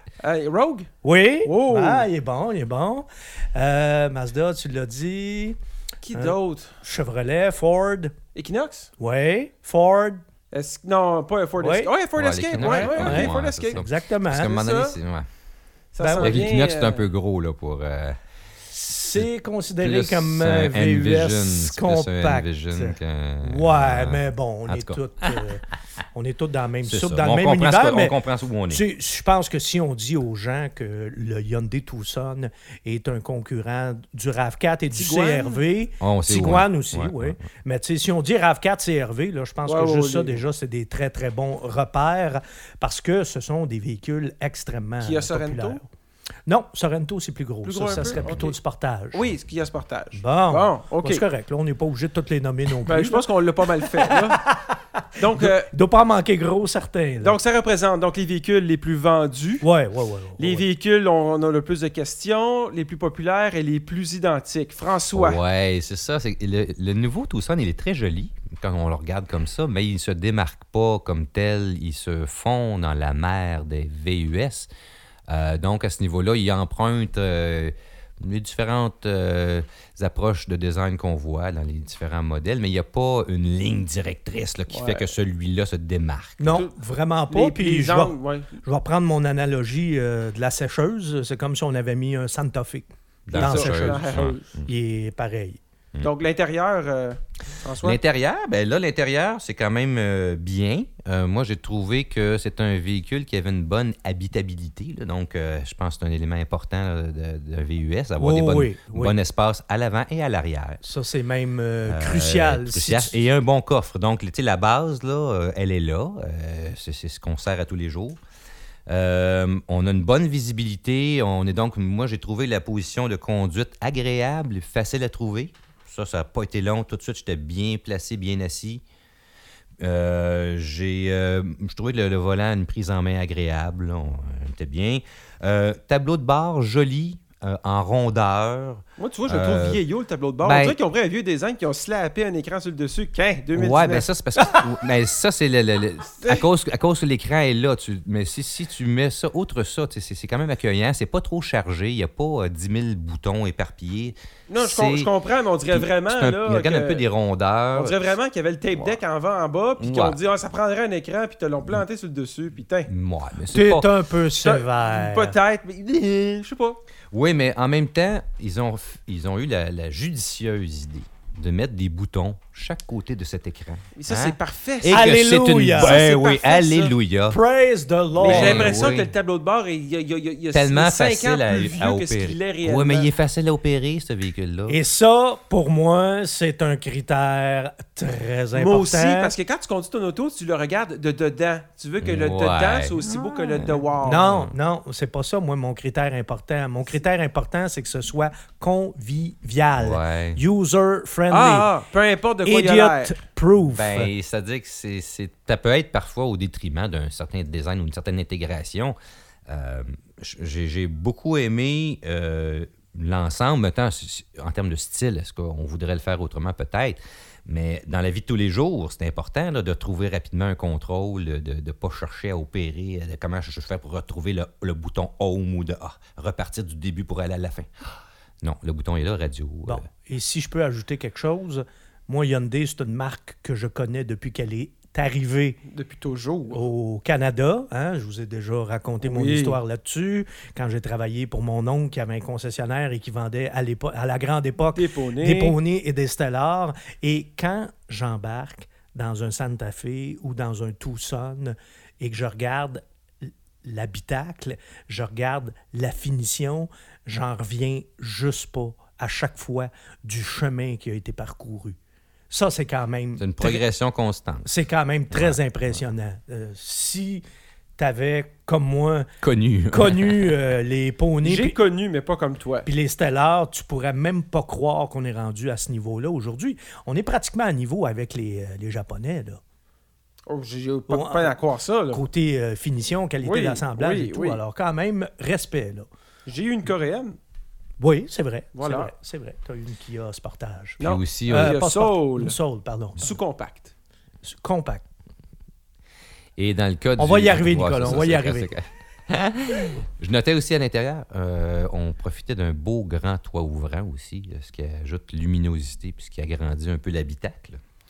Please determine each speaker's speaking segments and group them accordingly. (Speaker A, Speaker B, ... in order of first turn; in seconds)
Speaker A: 0.2-0.9, 1.4-2.1, 6.0-6.8, 8.3-8.9, 10.5-13.8, 14.4-15.0, 15.9-17.1, 34.9-35.6, 39.6-40.4, 45.0-45.8, 47.6-48.6, 49.1-51.2, 52.9-54.5, 55.2-55.7, 57.2-59.7, 60.4-65.4, 84.7-85.1, 87.3-88.5, 93.3-94.5, 96.0-98.0, 139.0-144.1, 154.5-157.1, 157.7-162.9, 164.4-166.8, 174.0-175.1, 175.8-176.9, 178.2-183.1, 188.5-194.4, 201.3-203.2, 235.7-236.6, 239.0-239.6, 244.8-245.6, 271.2-272.7, 280.3-282.0, 283.2-284.4, 286.3-287.2, 288.6-288.9, 290.8-292.4, 293.0-293.7
Speaker B: 1.0-5.6, 6.1-8.2, 9.0-10.2, 11.6-11.9, 12.6-14.6, 16.0-16.5, 18.7-28.2, 28.7-45.9, 46.5-49.3, 50.1-53.3, 54.1-57.4, 59.6-60.6, 86.4-95.6, 108.2-109.2, 110.8-113.2, 163.5-165.4, 174.9-176.0, 177.3-178.9, 184.7-189.3, 194.0-201.7, 202.4-204.1, 229.7-235.6, 236.5-261.8, 262.3-263.6, 264.4-267.2, 267.8-269.1, 269.7-271.6, 272.6-279.4, 280.9-281.4, 281.9-285.9, 287.8-293.2, 294.2-294.9, 297.0-298.5
Speaker C: 12.2-15.3, 16.2-18.2, 19.8-25.5, 26.8-28.8, 36.0-37.4, 48.1-48.4, 65.1-74.7, 75.3-86.6, 93.3-94.7, 97.8-110.8, 111.9-118.2, 118.9-128.8, 129.8-139.8, 140.4-140.8, 143.5-155.1, 155.7-158.2, 159.8-160.2, 162.9-163.9, 167.1-177.4, 178.2-179.1, 180.5-184.8, 192.0-194.5, 199.8-200.4, 203.7-209.0, 209.5-227.7, 228.4-229.8, 263.2-264.5, 265.1-265.4, 269.2-270.3, 290.8-291.6, 296.4-307.6